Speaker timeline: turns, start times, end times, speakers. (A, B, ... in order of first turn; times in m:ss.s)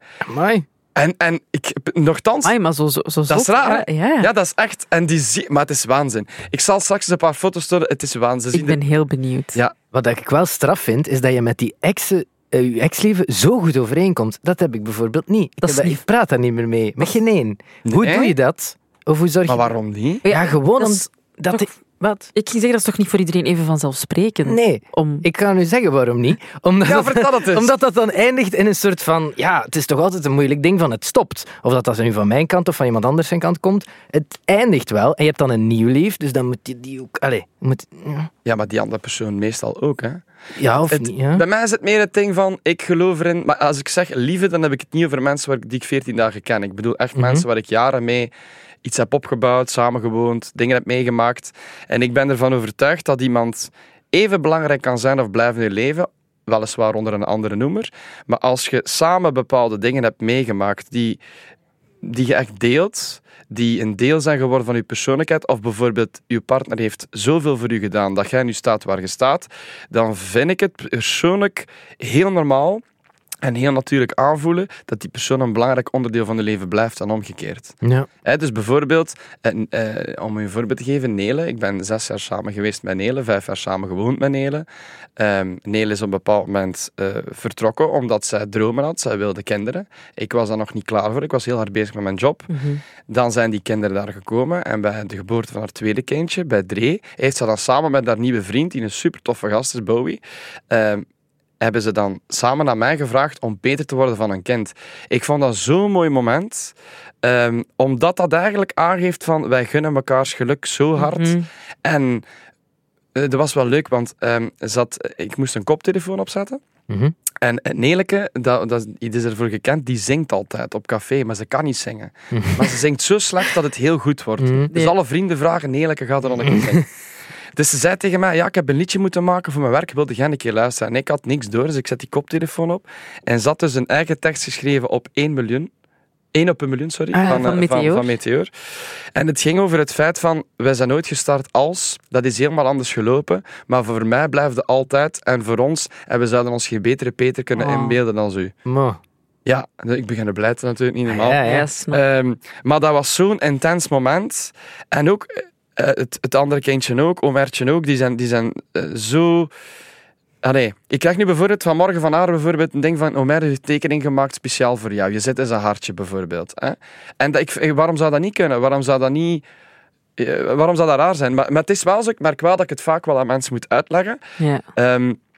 0:00.2-0:00.6 A
0:00.9-0:02.5 B
0:02.4-0:04.3 C
0:03.3-0:08.8 B
0:08.5-0:09.6 C
0:09.9-0:19.7 A
0:15.6-0:16.0 C
0:17.8-0:18.3 B
0:19.4-0:20.2 B
0:20.2-0:21.6 C
0:20.3-0:22.3 A
0:22.3-0:25.2 C
0:24.4-0:38.3 A
0:26.8-0:27.7 B
0:38.4-0:40.2 B
0:40.5-0:41.4 A
0:40.9-0:48.3 B
0:47.2-0:47.4 A
0:48.8-1:01.2 B
1:02.0-1:12.8 B
1:13.4-1:24.6 B
1:17.8-1:18.1 A
1:25.2-1:32.5 B
1:32.5-1:32.8 C
1:33.1-1:41.0 B
1:41.6-1:52.2 B
1:51.0-1:51.4 C
1:53.1-1:56.6 B
1:56.9-1:57.1 A
1:57.4-2:06.9 B
2:02.3-2:02.7 A
2:04.4-2:04.7 A
2:06.5-2:06.8 A
2:07.6-2:15.7 B
2:16.3-2:18.5 B
2:17.1-2:18.1 C
2:17.1-2:17.4 A
2:19.1-2:28.5 B
2:28.6-2:29.0 A
2:29.4-2:39.5 B
2:31.1-2:31.6 A
2:31.4-2:32.0 C
2:40.4-2:49.4 B
2:50.2-2:54.2 B
2:54.4-2:54.6 C
2:54.7-2:55.2 B